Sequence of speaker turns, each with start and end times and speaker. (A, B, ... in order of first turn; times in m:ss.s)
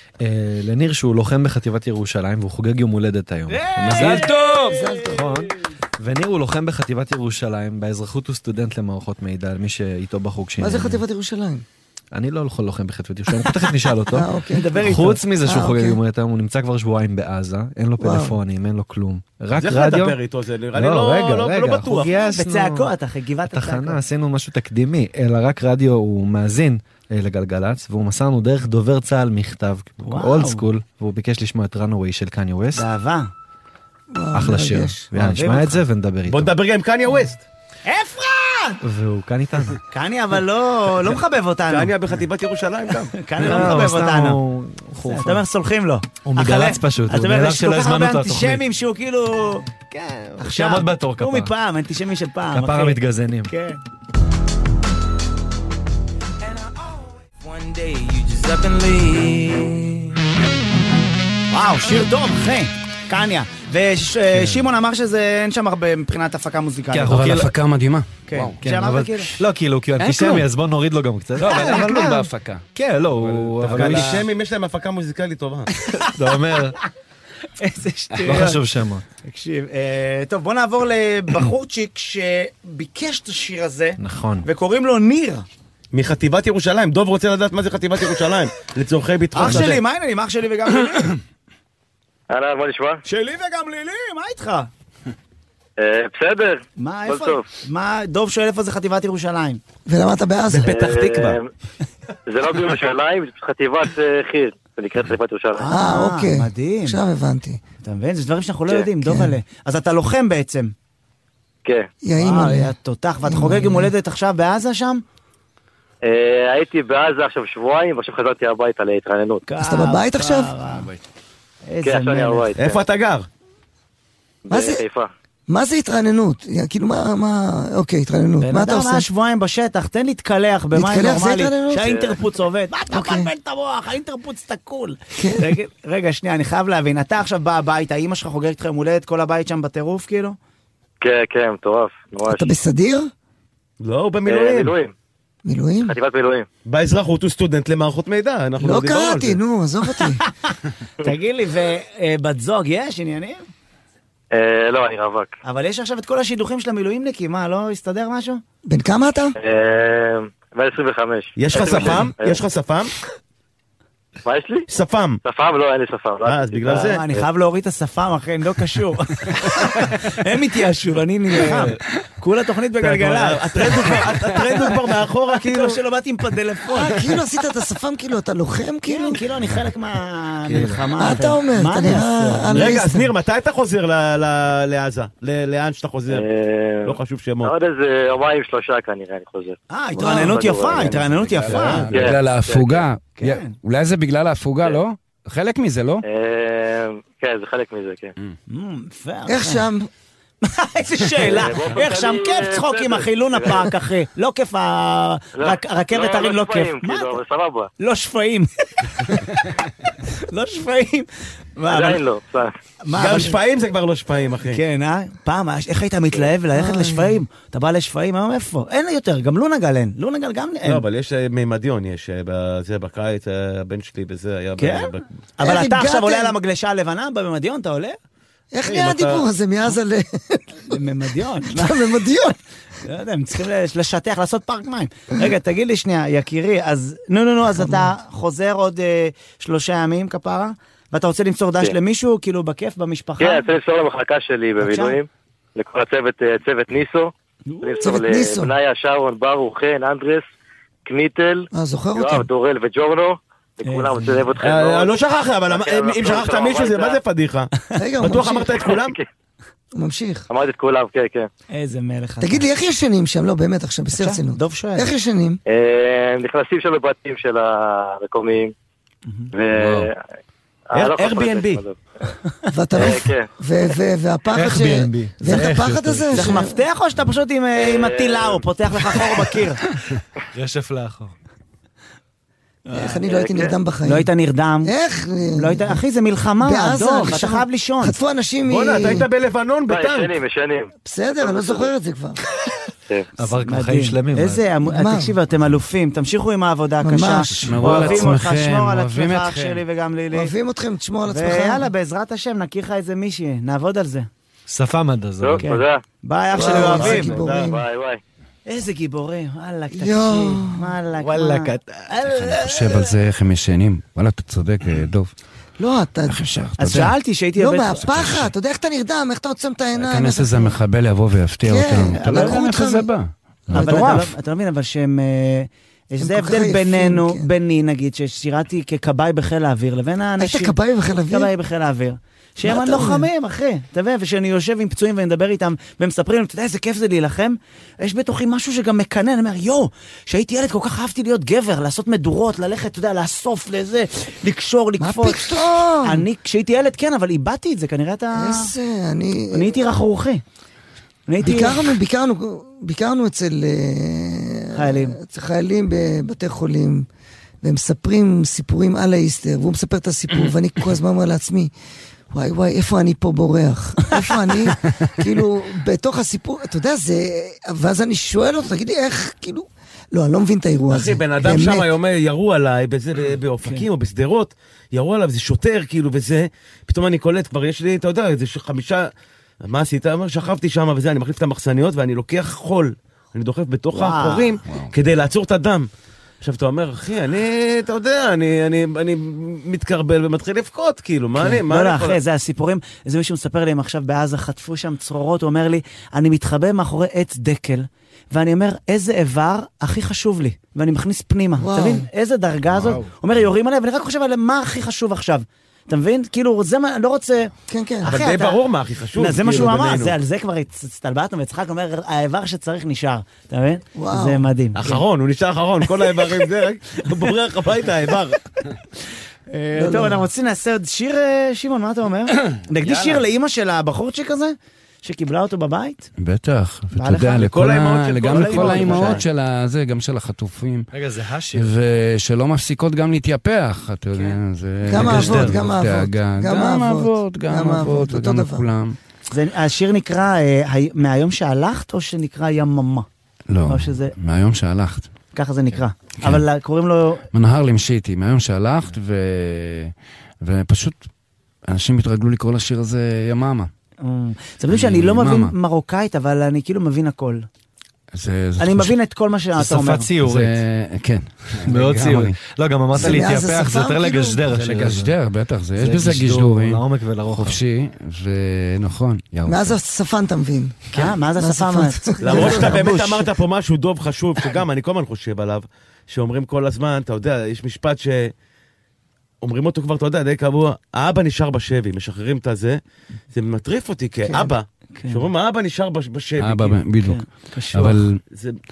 0:00.2-0:04.3 A
0:03.5-0:05.2 B
0:03.9-0:05.0 C
0:04.7-0:05.3 D
0:05.0-0:11.0 A
0:10.6-0:11.6 D
0:12.1-0:20.2 A
0:14.1-0:14.8 D
0:14.5-0:15.2 B
0:15.4-0:16.0 D
0:18.0-0:18.4 D
0:19.6-0:22.1 E
0:20.7-0:22.9 A
0:21.8-0:24.0 B
0:23.5-0:32.8 A
0:30.0-0:30.6 B
0:32.8-0:33.3 B
0:34.1-0:35.1 D
0:34.3-0:36.5 A
0:35.2-0:35.8 B
0:36.3-0:37.4 E
0:37.8-0:38.8 B
0:38.8-0:39.8 A
0:39.9-0:41.9 B
0:41.7-0:43.2 E
0:43.1-0:44.4 B
0:43.4-0:45.4 A
0:45.0-0:53.8 B
0:46.2-0:48.6 A
0:50.4-0:51.5 A
0:52.5-0:53.5 A
0:57.4-0:59.8 F
0:57.6-0:58.3 B
1:01.5-1:07.3 B
1:06.9-1:07.5 A
1:07.1-1:08.6 C
1:08.2-1:09.4 B
1:08.6-1:14.2 A
1:10.0-1:10.5 C
1:11.4-1:12.6 C
1:13.2-1:14.2 C
1:13.7-1:15.7 E
1:15.8-1:16.1 B
1:15.9-1:16.8 A
1:17.6-1:18.6 B
1:18.2-1:18.4 C
1:18.2-1:19.0 A
1:19.2-1:25.5 B
1:24.0-1:24.5 A
1:25.9-1:29.8 E
1:29.3-1:31.2 B
1:32.3-1:33.0 G
1:33.0-1:34.7 B
1:35.8-1:37.4 G
1:36.8-1:39.6 B
1:39.8-1:40.7 D
1:40.5-1:41.4 E
1:40.7-1:41.5 G
1:42.3-1:45.7 G
1:45.6-1:47.0 B
1:45.7-1:47.6 D
1:47.8-1:50.7 B
1:49.0-1:49.3 D
1:52.0-1:52.7 D
1:52.2-1:55.0 B
1:53.2-1:53.9 D
1:56.0-1:59.4 G
1:59.4-2:00.9 B
1:59.6-2:00.5 D
2:00.6-2:01.0 C
2:01.6-2:02.5 B
2:01.8-2:02.8 G
2:02.6-2:03.3 E
2:04.4-2:05.1 G
2:04.5-2:04.8 D
2:05.5-2:09.0 D
2:08.4-2:20.4 B
2:10.7-2:12.0 D
2:11.8-2:12.2 G
2:12.9-2:13.3 D
2:15.2-2:15.5 D
2:21.0-2:22.5 G
2:22.3-2:23.1 D
2:23.8-2:24.7 E
2:24.2-2:24.9 G
2:25.4-2:25.9 D
2:25.8-2:26.4 G
2:26.6-2:29.4 E
2:28.6-2:30.2 D
2:30.2-2:33.4 B
2:34.3-2:35.3 G
2:35.4-2:38.4 B
2:38.6-2:39.3 D
2:39.4-2:42.4 G
2:41.4-2:42.9 E
2:44.2-2:44.7 G
2:44.7-2:45.2 E
2:45.2-2:47.2 G
2:46.2-2:47.0 E
2:46.7-2:54.7 B
2:51.4-2:51.7 A
2:52.8-2:55.8 E
2:55.3-2:57.0 B
2:56.7-2:59.2 D
2:58.9-3:02.7 B
3:00.5-3:00.8 A
3:01.0-3:03.1 D
3:02.5-3:06.2 E
3:06.1-3:11.0 G
3:06.8-3:07.5 E
3:09.7-3:11.9 B
3:09.9-3:10.4 D
3:10.7-3:16.0 C
3:11.9-3:12.8 G
3:13.2-3:13.5 B
3:16.0-3:18.1 G
3:18.5-3:19.7 B
3:19.3-3:19.9 D
3:20.4-3:27.2 B
3:21.2-3:23.7 G
3:25.4-3:27.7 G
3:27.8-3:29.4 B
3:30.0-3:32.0 B
3:31.7-3:32.5 G
3:32.8-3:33.4 B
3:32.9-3:34.6 E
3:34.5-3:40.8 B
3:36.5-3:37.2 D
3:40.6-3:45.0 E
3:44.6-3:48.0 B
3:45.4-3:46.4 D
3:48.5-3:50.8 D
3:48.6-3:49.2 E
3:50.7-3:51.9 B
3:51.4-3:52.4 D
3:52.8-4:03.4 B
3:57.6-3:57.9 D
4:03.2-4:10.2 G
4:04.6-4:05.0 B
4:07.4-4:08.0 B
4:07.8-4:08.5 D
4:10.8-4:15.0 G
4:11.5-4:12.3 D
4:13.6-4:14.4 B
4:14.4-4:19.0 E
4:15.5-4:17.0 G
4:17.8-4:18.6 D
4:18.6-4:19.0 G
4:19.7-4:20.3 D
4:20.3-4:21.3 G
4:21.5-4:22.4 B
4:22.2-4:25.4 D
4:24.0-4:24.9 B
4:25.5-4:28.5 G
4:29.3-4:30.0 G
4:29.5-4:29.9 C
4:30.7-4:31.8 G
4:30.7-4:31.6 E
4:32.5-4:36.6 D
4:32.7-4:33.3 G
4:34.3-4:36.4 A
4:35.2-4:35.6 B
4:36.1-4:39.6 B
4:37.6-4:38.4 G
4:40.3-4:41.1 A
4:42.7-4:43.0 B
4:42.7-4:44.1 D
4:43.0-4:43.5 G
4:43.8-4:44.7 B
4:44.6-4:45.8 D
4:45.3-4:48.0 B
4:46.4-4:49.0 D
4:48.4-4:50.2 E
4:49.7-4:51.7 G
4:50.8-4:52.2 D
4:53.2-4:54.4 A
4:53.4-5:00.3 B
4:54.6-4:55.2 D
4:56.8-4:58.0 D
4:57.3-4:59.6 C
5:00.1-5:01.7 D
5:01.1-5:04.1 B
5:04.5-5:05.4 A
5:05.2-5:05.8 G
5:05.4-5:07.2 B
5:06.3-5:07.6 D
5:06.4-5:07.5 E
5:07.3-5:08.0 G
5:08.4-5:12.6 B
5:09.7-5:10.7 D
5:11.0-5:11.9 A
5:12.0-5:15.1 C
5:15.6-5:20.6 D
5:16.0-5:17.0 C
5:16.6-5:18.2 B
5:17.8-5:18.3 C
5:19.8-5:24.1 C
5:21.4-5:22.9 D
5:21.8-5:22.5 B
5:23.5-5:24.0 D
5:23.5-5:30.5 B
5:26.0-5:27.3 D
5:30.2-5:31.3 D
5:31.1-5:48.5 B
5:32.4-5:33.1 D
5:44.8-5:46.0 D
5:48.1-5:49.6 D
5:49.3-5:50.2 B
5:51.1-5:51.6 B
5:51.2-5:56.9 D
5:54.5-5:55.0 B
5:57.4-6:01.5 D
6:02.1-6:11.7 D
6:10.7-6:18.9 E
6:19.4-6:25.7 E
6:23.7-6:24.3 B
6:24.4-6:24.7 C
6:26.2-6:32.0 E
6:31.2-6:48.4 B
6:41.4-6:41.9 D
6:47.5-6:47.9 D
6:47.9-6:50.0 E
6:49.0-6:54.8 B
6:53.7-6:54.2 D
6:54.6-6:58.2 E
6:59.3-7:05.9 B
6:59.6-7:00.1 D
7:02.3-7:03.0 C
7:06.0-7:10.7 C
7:06.7-7:07.4 B
7:07.2-7:09.0 E
7:07.9-7:09.0 B
7:10.7-7:11.5 A
7:11.3-7:18.8 C
7:13.9-7:14.2 B
7:14.6-7:18.5 D
7:14.7-7:15.5 A
7:19.1-7:22.9 B
7:23.3-7:24.9 C
7:23.4-7:23.9 B
7:25.1-7:27.0 B
7:26.0-7:26.2 C
7:27.1-7:30.9 C
7:31.4-7:33.5 C
7:33.8-7:37.2 B
7:34.5-7:35.3 C
7:37.9-7:38.7 C
7:38.4-7:39.9 B
7:39.4-7:40.4 A
7:40.0-7:42.2 C
7:41.4-7:44.9 A
7:42.8-7:43.0 C
7:42.8-7:44.2 D
7:44.2-7:49.6 C
7:45.6-7:47.4 A
7:49.2-7:53.0 D
7:50.7-7:53.1 B
7:52.0-7:58.1 E
7:59.2-8:02.6 E
8:03.1-8:06.6 E
8:04.2-8:05.0 B
8:06.2-8:08.0 C
8:06.8-8:07.8 B
8:08.1-8:08.4 E